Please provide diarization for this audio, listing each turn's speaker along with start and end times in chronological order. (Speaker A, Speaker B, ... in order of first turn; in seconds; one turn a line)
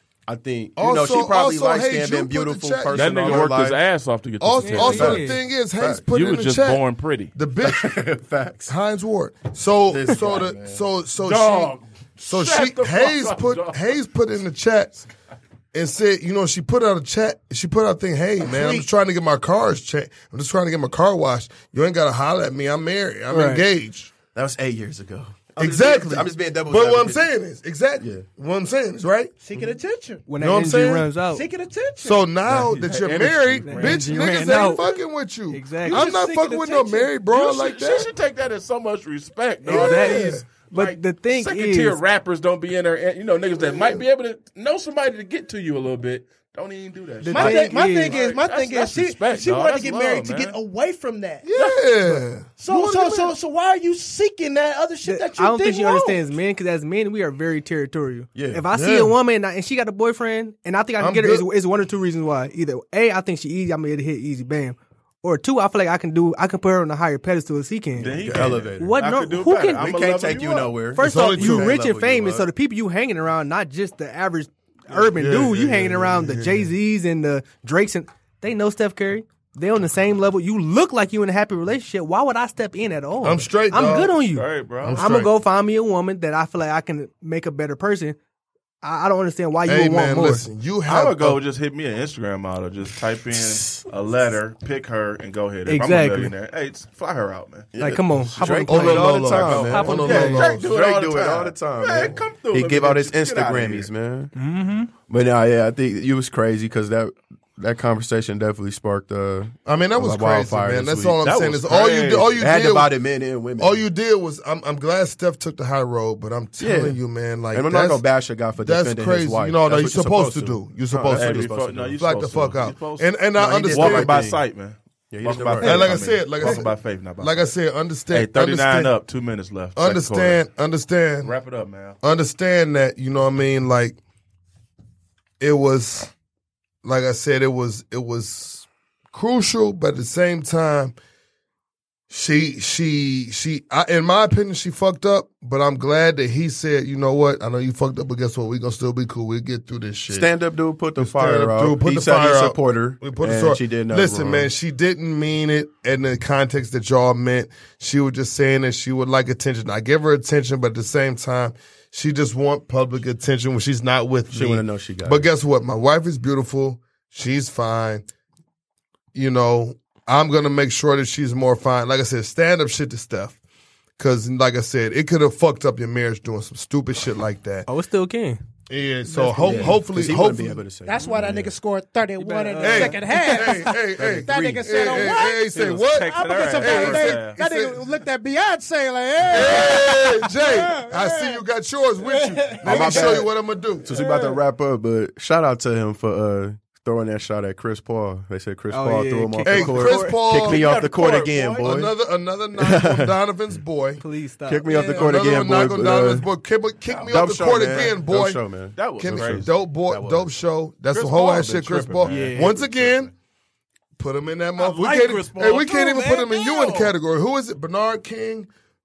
Speaker A: 0.3-3.8
Speaker B: 0.8-3.5
Speaker C: 2.9-5.3
Speaker B: 4.4-6.8
Speaker D: 4.6-5.4
Speaker A: 4.9-6.0
Speaker C: 6.1-7.3
Speaker B: 7.3-8.0
Speaker A: 7.6-8.7
Speaker B: 8.7-11.7
Speaker A: 9.9-10.8
Speaker C: 11.2-14.0
Speaker B: 12.3-15.0
Speaker B: 15.7-24.1
Speaker E: 18.4-18.9
Speaker D: 23.3-23.6
Speaker A: 24.3-27.3
Speaker B: 25.6-29.4
Speaker A: 28.0-28.2
Speaker E: 29.4-30.3
Speaker D: 30.3-31.4
Speaker B: 30.4-31.1
Speaker E: 31.3-32.2
Speaker B: 32.0-38.1
Speaker C: 32.5-34.1
Speaker D: 33.6-35.0
Speaker D: 35.5-37.1
Speaker E: 35.8-36.3
Speaker C: 37.3-50.6
Speaker B: 39.7-40.4
Speaker D: 39.7-42.0
Speaker B: 43.6-44.0
Speaker D: 47.2-48.2
Speaker E: 47.3-51.7
Speaker B: 51.4-53.3
Speaker E: 52.6-56.2
Speaker D: 55.1-69.9
Speaker A: 58.4-58.6
Speaker B: 58.7-59.1
Speaker B: 61.0-61.5
Speaker C: 68.0-70.8
Speaker A: 68.1-69.0
Speaker A: 69.8-72.5
Speaker D: 71.0-88.2
Speaker B: 71.0-71.7
Speaker B: 75.1-76.7
Speaker B: 83.2-84.2
Speaker C: 84.3-85.0
Speaker B: 84.8-85.3
Speaker D: 88.8-90.5
Speaker B: 89.7-91.4
Speaker C: 90.9-97.7
Speaker D: 95.7-96.3
Speaker A: 97.7-104.3
Speaker D: 97.8-100.4
Speaker C: 98.4-103.9
Speaker B: 98.7-100.7
Speaker D: 104.3-104.9
Speaker A: 105.1-111.8
Speaker B: 109.7-112.9
Speaker C: 111.2-112.4
Speaker A: 112.3-113.8
Speaker B: 113.6-118.0
Speaker A: 116.6-117.0
Speaker A: 117.5-122.0
Speaker B: 118.6-124.1
Speaker C: 121.1-123.1
Speaker A: 123.3-124.4
Speaker C: 123.7-127.5
Speaker A: 125.1-125.8
Speaker B: 125.6-128.9
Speaker C: 128.1-130.4
Speaker B: 129.8-131.3
Speaker C: 131.2-132.0
Speaker B: 132.0-134.0
Speaker B: 135.4-136.1
Speaker B: 136.8-140.9
Speaker B: 142.1-150.3
Speaker A: 150.1-154.5
Speaker B: 151.0-168.1
Speaker A: 164.3-165.3
Speaker B: 169.1-173.4
Speaker B: 174.0-177.7
Speaker D: 177.7-178.4
Speaker B: 178.7-180.7
Speaker D: 179.2-179.8
Speaker E: 179.3-179.6
Speaker A: 179.4-181.5
Speaker E: 180.8-191.4
Speaker D: 182.2-183.7
Speaker B: 182.6-188.0
Speaker A: 184.0-184.3
Speaker C: 185.5-187.4
Speaker B: 189.3-193.9
Speaker E: 192.0-193.2
Speaker A: 192.6-193.3
Speaker A: 193.8-201.9
Speaker E: 194.1-194.3
Speaker D: 198.7-200.2
Speaker B: 199.5-200.7
Speaker C: 200.3-201.7
Speaker B: 201.6-204.0
Speaker A: 202.6-203.2
Speaker D: 204.0-205.0
Speaker A: 204.5-206.3
Speaker B: 204.7-208.4
Speaker C: 206.9-208.0
Speaker A: 207.1-210.3
Speaker C: 208.8-209.5
Speaker B: 209.0-213.1
Speaker C: 210.9-213.1
Speaker A: 212.1-212.5
Speaker D: 212.1-212.5
Speaker B: 214.0-218.5
Speaker C: 214.6-217.0